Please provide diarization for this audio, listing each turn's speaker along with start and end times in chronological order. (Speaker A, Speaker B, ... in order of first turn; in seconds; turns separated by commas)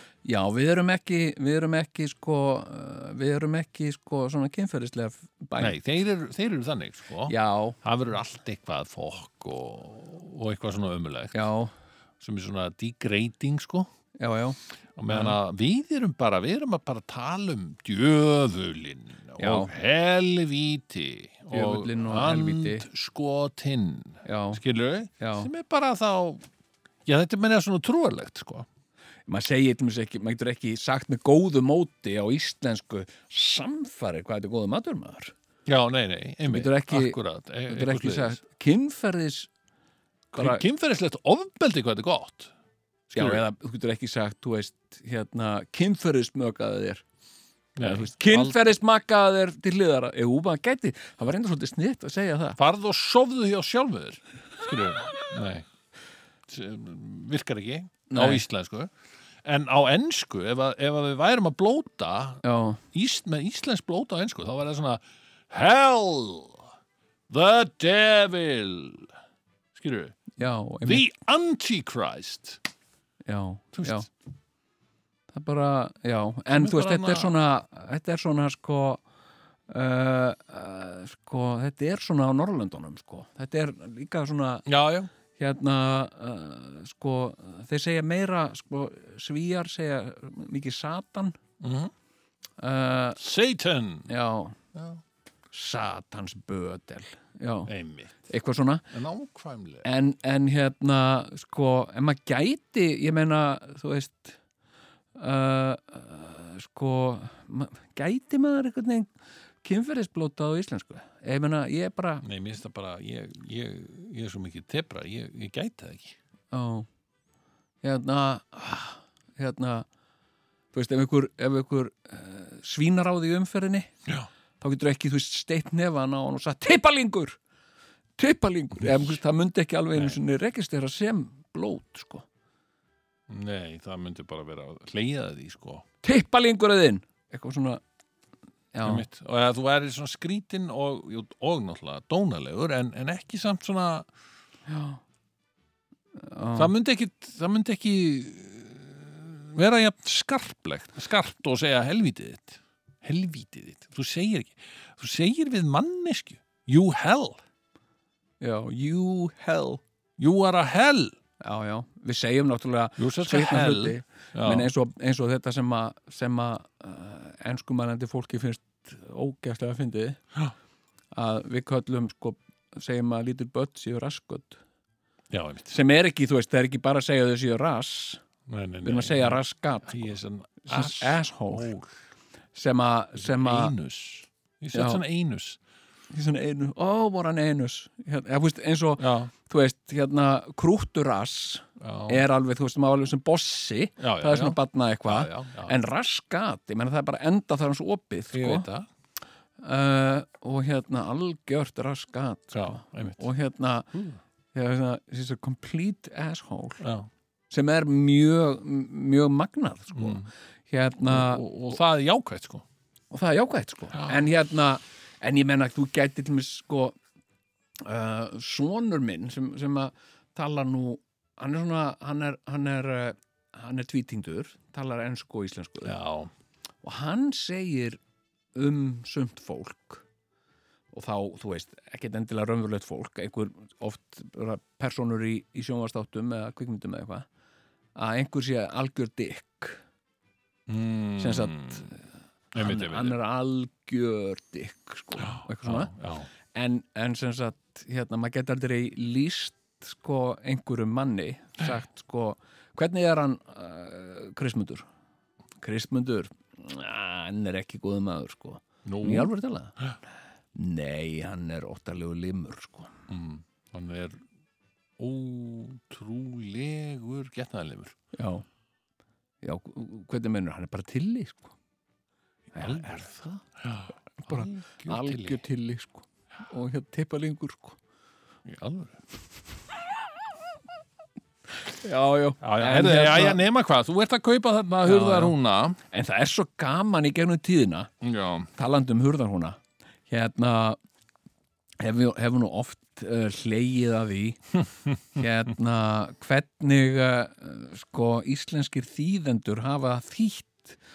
Speaker A: 0.2-5.8, Speaker B: 5.6-11.5, Speaker A: 7.3-7.8, Speaker A: 11.3-11.7, Speaker B: 12.2-13.9, Speaker A: 14.2-14.6, Speaker B: 15.0-26.4, Speaker A: 15.1-15.3, Speaker A: 19.4-19.7, Speaker A: 21.5-22.8, Speaker A: 24.2-24.6, Speaker A: 25.2-25.5, Speaker B: 27.1-28.6, Speaker A: 29.3-35.3, Speaker B: 35.6-38.4, Speaker A: 36.5-37.2, Speaker A: 37.7-39.5, Speaker A: 40.3-40.6, Speaker B: 40.3-42.5, Speaker A: 43.1-47.0, Speaker B: 43.1-43.4, Speaker B: 47.8-48.6, Speaker A: 47.8-52.6, Speaker B: 52.6-55.7, Speaker B: 56.5-58.9, Speaker A: 58.1-58.4, Speaker B: 59.4-66.7, Speaker A: 62.4-62.8, Speaker B: 67.3-69.1, Speaker B: 69.7-70.2, Speaker A: 70.4-71.0, Speaker B: 70.8-72.6, Speaker A: 73.2-74.1, Speaker B: 73.7-74.0, Speaker A: 75.3-79.0, Speaker B: 76.5-77.3, Speaker A: 79.7-84.7, Speaker B: 84.7-85.1, Speaker A: 85.3-91.4, Speaker B: 91.6-91.9, Speaker A: 92.6-93.2, Speaker B: 93.2-94.1, Speaker A: 94.1-94.6, Speaker B: 94.7-95.0, Speaker A: 95.5-97.7, Speaker B: 97.7-98.3, Speaker A: 98.3-98.8, Speaker B: 98.9-99.9, Speaker A: 99.8-104.4, Speaker A: 105.2-109.1, Speaker A: 109.6-112.2, Speaker B: 112.2-116.2, Speaker A: 116.5-116.9, Speaker A: 117.8-119.9, Speaker A: 120.7-123.9, Speaker A: 124.6-127.4, Speaker A: 128.2-132.2, Speaker B: 133.3-135.8, Speaker A: 136.0-137.8, Speaker A: 138.7-139.0, Speaker B: 138.8-144.1, Speaker A: 144.7-145.0, Speaker A: 146.2-146.7, Speaker B: 146.6-157.4, Speaker A: 158.4-159.8, Speaker B: 160.2-161.2, Speaker A: 161.4-170.2, Speaker B: 163.0-164.7, Speaker A: 171.1-174.6, Speaker B: 175.3-175.7, Speaker A: 175.7-178.2, Speaker B: 178.5-181.9, Speaker A: 178.8-181.7, Speaker A: 182.5-183.7, Speaker B: 183.2-185.6, Speaker A: 184.7-185.0, Speaker A: 186.1-198.7, Speaker B: 189.0-189.3, Speaker B: 191.8-192.2, Speaker B: 194.0-195.7, Speaker B: 198.3-198.9, Speaker A: 199.6-204.0, Speaker B: 202.5-203.2, Speaker A: 204.5-206.8, Speaker B: 206.8-207.1, Speaker A: 207.5-211.4, Speaker B: 209.9-210.3, Speaker B: 211.1-212.6, Speaker A: 213.1-217.0, Speaker A: 217.8-225.9, Speaker B: 225.8-226.3, Speaker A: 226.8-228.0, Speaker A: 228.5-230.0, Speaker A: 230.9-237.3, Speaker A: 237.9-239.8, Speaker B: 240.7-241.9, Speaker A: 241.2-242.0, Speaker B: 242.5-243.2, Speaker A: 242.5-245.9, Speaker B: 245.2-246.3, Speaker A: 246.5-254.8, Speaker A: 255.6-259.7, Speaker B: 258.8-259.9, Speaker A: 260.5-262.9, Speaker B: 263.1-264.2, Speaker B: 265.0-267.9, Speaker A: 268.1-268.4, Speaker A: 269.4-271.5, Speaker A: 272.5-273.4, Speaker B: 272.6-273.1, Speaker B: 273.6-275.4, Speaker A: 274.2-277.8, Speaker B: 278.4-279.0, Speaker A: 281.7-283.4, Speaker B: 282.4-285.8, Speaker A: 284.8-285.4, Speaker A: 285.9-287.9, Speaker B: 288.0-288.5, Speaker A: 288.5-290.8, Speaker A: 291.8-294.4, Speaker A: 295.1-300.8